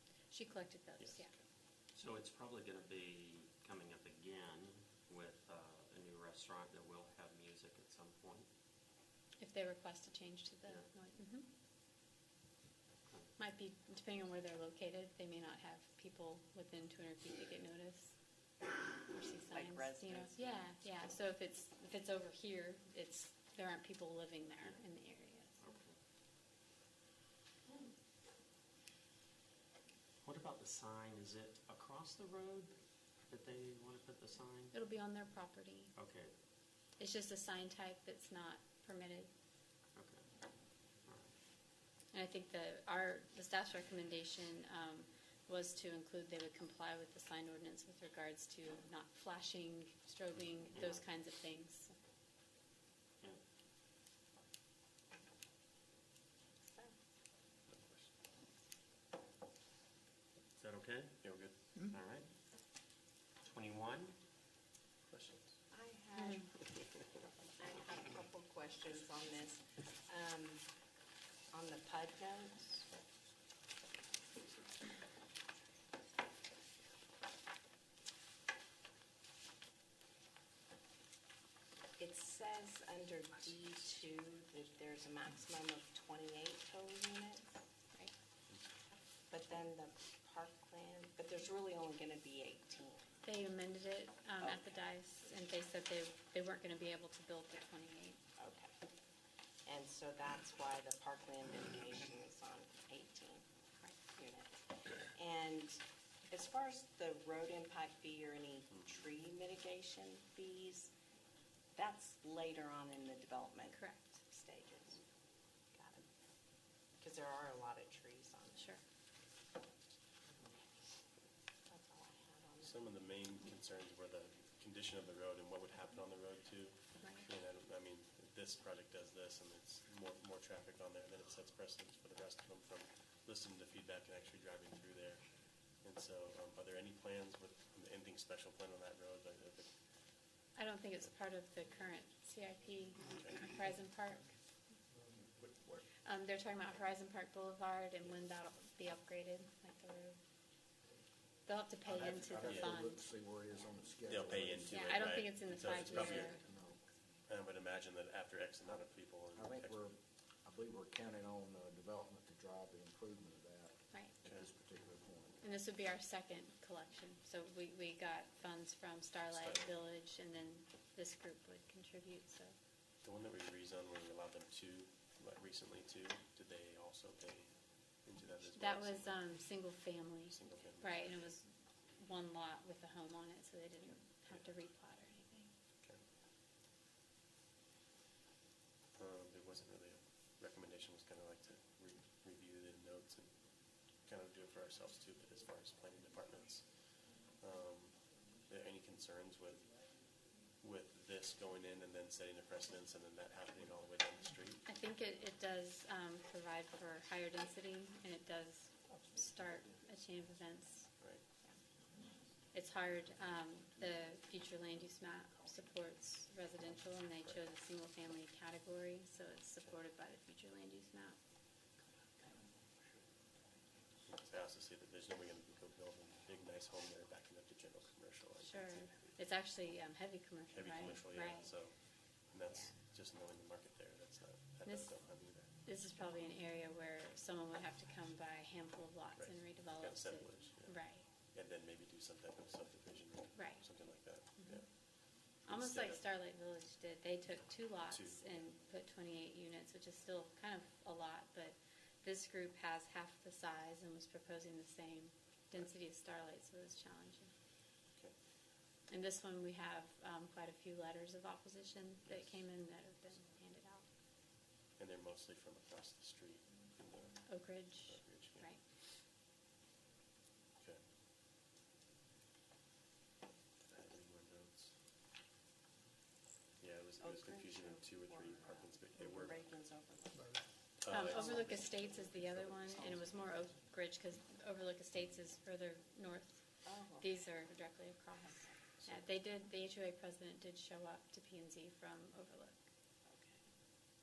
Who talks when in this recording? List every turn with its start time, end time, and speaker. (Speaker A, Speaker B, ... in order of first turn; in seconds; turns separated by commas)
Speaker A: 0.3-1.3, Speaker B: 1.0-1.4, Speaker C: 1.9-8.5, Speaker A: 9.4-11.5, Speaker A: 13.4-18.2, Speaker A: 19.1-25.6, Speaker D: 19.5-21.0, Speaker C: 25.6-26.0, Speaker C: 30.2-32.8, Speaker C: 33.3-34.8, Speaker A: 34.7-35.9, Speaker C: 36.0-36.3, Speaker A: 37.0-39.3, Speaker C: 40.0-40.2, Speaker C: 41.0-41.3, Speaker A: 42.1-52.0, Speaker C: 50.7-51.0, Speaker D: 56.6-57.0, Speaker B: 57.7-58.1, Speaker C: 60.6-61.2, Speaker B: 61.2-61.5, Speaker C: 61.8-62.3, Speaker C: 63.4-64.2, Speaker B: 65.1-65.6, Speaker D: 65.7-66.6, Speaker A: 66.2-66.5, Speaker D: 67.6-70.6, Speaker D: 71.5-72.9, Speaker D: 82.0-87.6, Speaker D: 89.3-93.2, Speaker A: 93.2-98.2, Speaker D: 94.4-94.7, Speaker D: 98.4-98.8, Speaker D: 99.7-103.5, Speaker D: 104.0-110.9, Speaker D: 111.8-115.0, Speaker A: 113.7-114.2, Speaker D: 115.7-116.0, Speaker D: 117.0-118.7, Speaker D: 121.7-122.8, Speaker B: 122.6-135.3, Speaker A: 127.0-127.3, Speaker B: 135.8-139.7, Speaker A: 140.6-144.4, Speaker B: 143.1-143.4, Speaker E: 145.5-145.8, Speaker A: 145.9-150.2, Speaker A: 151.4-153.1, Speaker E: 151.9-154.9, Speaker B: 152.4-152.7, Speaker B: 154.1-156.4, Speaker A: 154.7-156.4, Speaker E: 155.6-156.8, Speaker B: 157.3-159.8, Speaker E: 159.3-165.4, Speaker A: 165.4-172.6, Speaker B: 169.3-169.7, Speaker B: 173.0-177.5, Speaker B: 178.0-179.2, Speaker A: 178.5-185.5, Speaker B: 180.3-181.3, Speaker B: 184.3-184.5, Speaker B: 188.9-193.3, Speaker B: 194.0-199.7, Speaker B: 200.6-204.7, Speaker A: 204.7-211.6, Speaker B: 211.0-211.2, Speaker A: 212.5-221.2, Speaker B: 224.1-229.2, Speaker A: 228.4-231.6, Speaker B: 230.5-235.6, Speaker A: 232.5-232.7, Speaker A: 234.7-235.0, Speaker A: 235.6-241.1, Speaker B: 239.2-246.0, Speaker A: 243.3-243.7, Speaker A: 244.4-244.7, Speaker A: 245.3-257.3, Speaker B: 247.9-248.5, Speaker A: 258.9-263.9, Speaker B: 262.1-262.4, Speaker B: 264.8-267.3, Speaker A: 267.3-268.6, Speaker B: 267.9-268.5, Speaker B: 273.7-274.7, Speaker B: 276.6-279.6, Speaker D: 277.0-280.4, Speaker B: 280.8-281.7, Speaker A: 280.9-286.4, Speaker D: 281.0-281.8, Speaker D: 282.6-283.0, Speaker D: 286.7-287.1, Speaker A: 287.0-292.6, Speaker D: 293.1-293.5